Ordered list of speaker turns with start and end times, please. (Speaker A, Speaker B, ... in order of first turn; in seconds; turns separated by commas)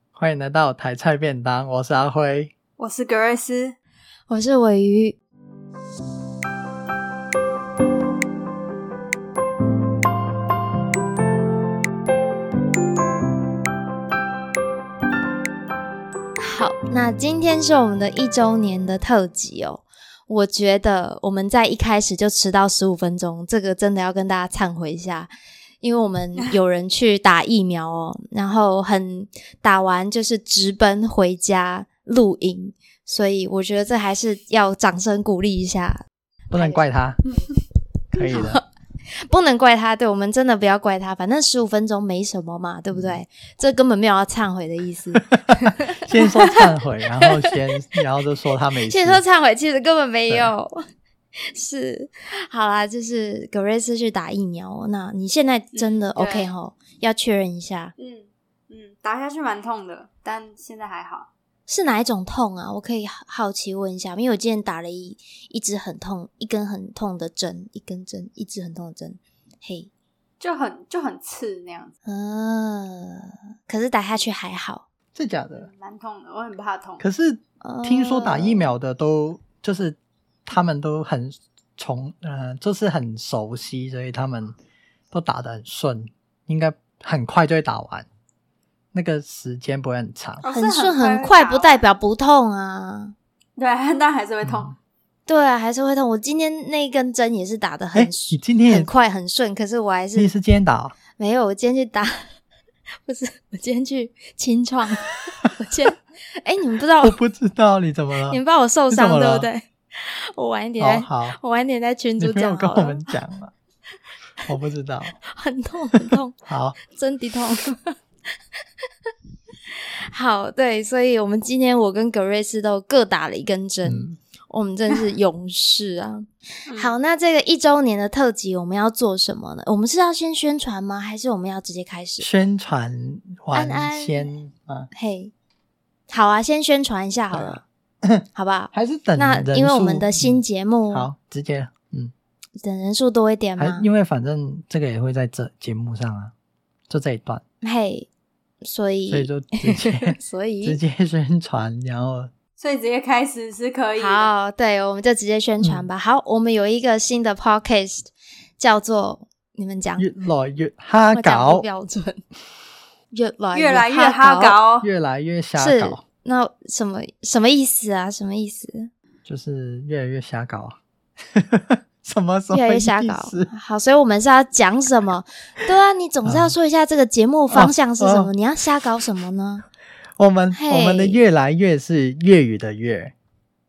Speaker A: 0.1-2.5, Speaker B: 2.8-3.8, Speaker C: 4.3-5.2, Speaker C: 16.4-25.3, Speaker C: 25.8-36.0, Speaker A: 36.5-37.2, Speaker C: 36.5-37.4, Speaker A: 38.1-38.6, Speaker C: 38.2-46.0, Speaker A: 42.9-43.2, Speaker A: 45.2-49.2, Speaker C: 48.8-50.8, Speaker C: 51.4-57.9, Speaker B: 55.7-56.5, Speaker B: 58.0-61.3, Speaker C: 61.7-69.9, Speaker B: 70.4-71.9, Speaker C: 72.0-74.8, Speaker A: 75.1-75.7, Speaker B: 75.5-77.0, Speaker A: 77.0-84.5, Speaker C: 77.6-78.7, Speaker A: 85.1-88.1, Speaker A: 88.9-90.4, Speaker B: 90.4-91.8, Speaker C: 90.5-93.1, Speaker B: 93.5-94.7, Speaker A: 94.4-94.7, Speaker C: 95.3-100.3, Speaker A: 97.9-98.9, Speaker A: 100.1-100.9, Speaker C: 101.2-102.3, Speaker C: 103.0-107.2, Speaker A: 107.0-108.4, Speaker C: 108.3-113.0, Speaker A: 108.9-109.5, Speaker A: 110.8-111.4, Speaker A: 112.2-113.5, Speaker A: 114.5-115.2, Speaker C: 115.3-118.0, Speaker A: 115.9-116.8, Speaker C: 119.7-132.3, Speaker A: 123.8-124.2, Speaker B: 126.7-127.0, Speaker A: 132.2-134.9, Speaker C: 133.5-134.3, Speaker C: 134.9-135.3, Speaker C: 136.1-137.6, Speaker A: 137.3-140.4, Speaker C: 138.3-141.1, Speaker A: 140.9-142.1, Speaker C: 142.6-143.9, Speaker A: 143.6-146.3, Speaker A: 146.9-147.4, Speaker C: 147.6-148.1, Speaker C: 148.6-150.8, Speaker A: 149.1-152.3, Speaker B: 152.6-154.3, Speaker C: 154.0-160.1, Speaker A: 155.6-155.9, Speaker A: 160.0-161.6, Speaker C: 161.1-162.2, Speaker C: 163.1-164.6, Speaker B: 163.5-164.9, Speaker A: 164.8-166.0, Speaker C: 165.6-168.9, Speaker A: 169.2-170.8, Speaker A: 171.3-173.5, Speaker C: 172.5-179.6, Speaker A: 176.2-176.5, Speaker A: 177.5-178.3, Speaker A: 180.2-183.1, Speaker C: 180.5-181.2